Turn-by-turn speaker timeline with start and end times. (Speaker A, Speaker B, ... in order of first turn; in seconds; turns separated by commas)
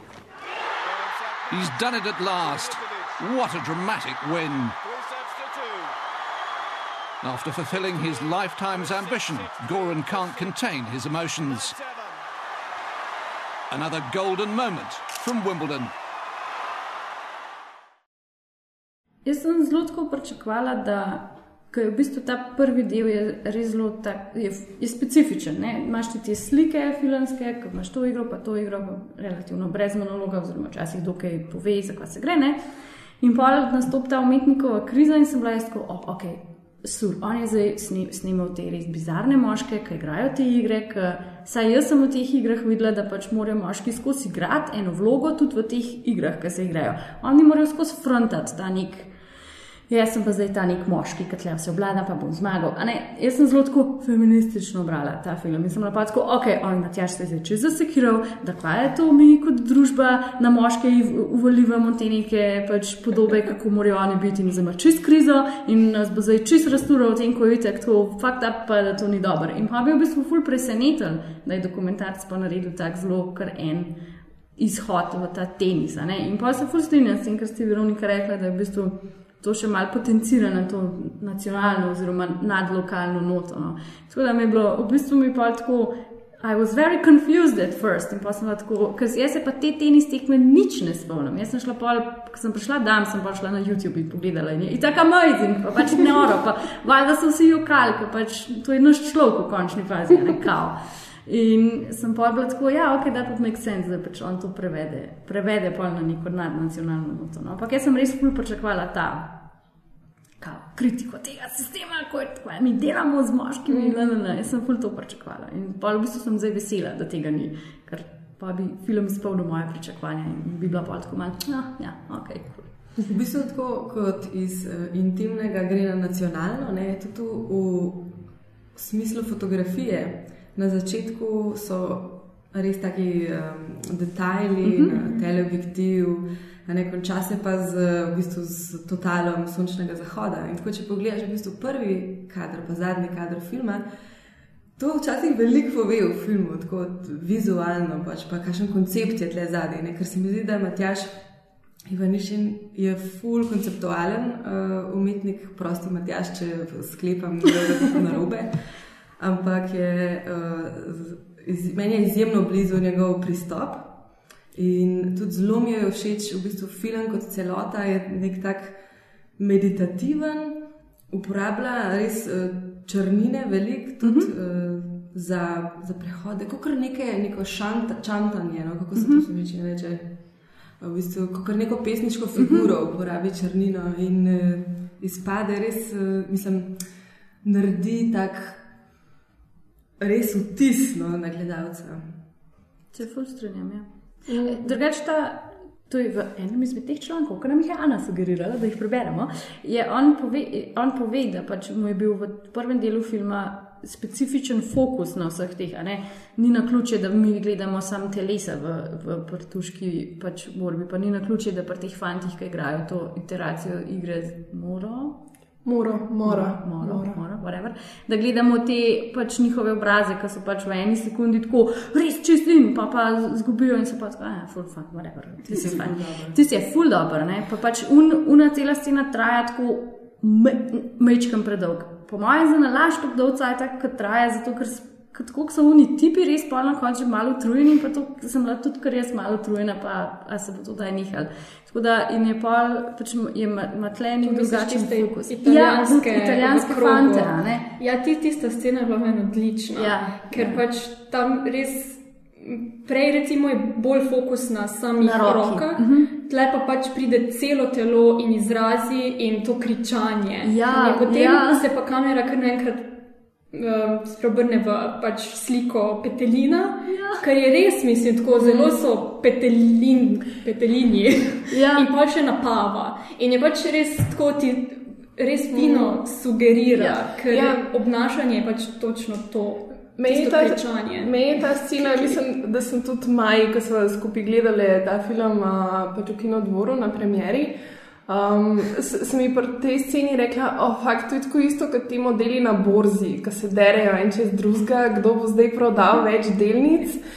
Speaker A: 1.5-4.8, Speaker A: 7.2-11.8, Speaker A: 13.7-15.9, Speaker B: 19.2-32.6, Speaker B: 33.2-49.1, Speaker B: 49.9-73.9, Speaker B: 74.6-100.7, Speaker B: 101.2-109.3, Speaker B: 110.4-122.7, Speaker C: 113.7-114.1, Speaker D: 123.1-128.1, Speaker D: 128.7-143.8, Speaker B: 134.6-135.0, Speaker D: 144.8-151.2, Speaker D: 151.9-158.5, Speaker D: 159.2-163.9, Speaker D: 164.5-168.8, Speaker D: 169.4-170.6, Speaker D: 171.1-180.1, Speaker B: 174.0-174.3, Speaker B: 178.9-179.2, Speaker D: 180.8-186.8, Speaker B: 182.4-182.7, Speaker D: 187.4-188.6, Speaker D: 190.0-192.1, Speaker B: 192.9-215.2, Speaker C: 194.3-194.7, Speaker C: 215.6-217.2, Speaker B: 216.2-247.7, Speaker D: 225.4-226.4, Speaker E: 244.2-262.9, Speaker B: 249.7-250.6, Speaker B: 255.0-256.1, Speaker B: 260.4-261.6, Speaker E: 263.5-282.2, Speaker B: 266.9-267.2, Speaker B: 271.5-271.9, Speaker C: 275.5-276.0, Speaker B: 276.7-277.1, Speaker C: 277.3-277.7, Speaker C: 280.0-287.5, Speaker C: 288.1-297.0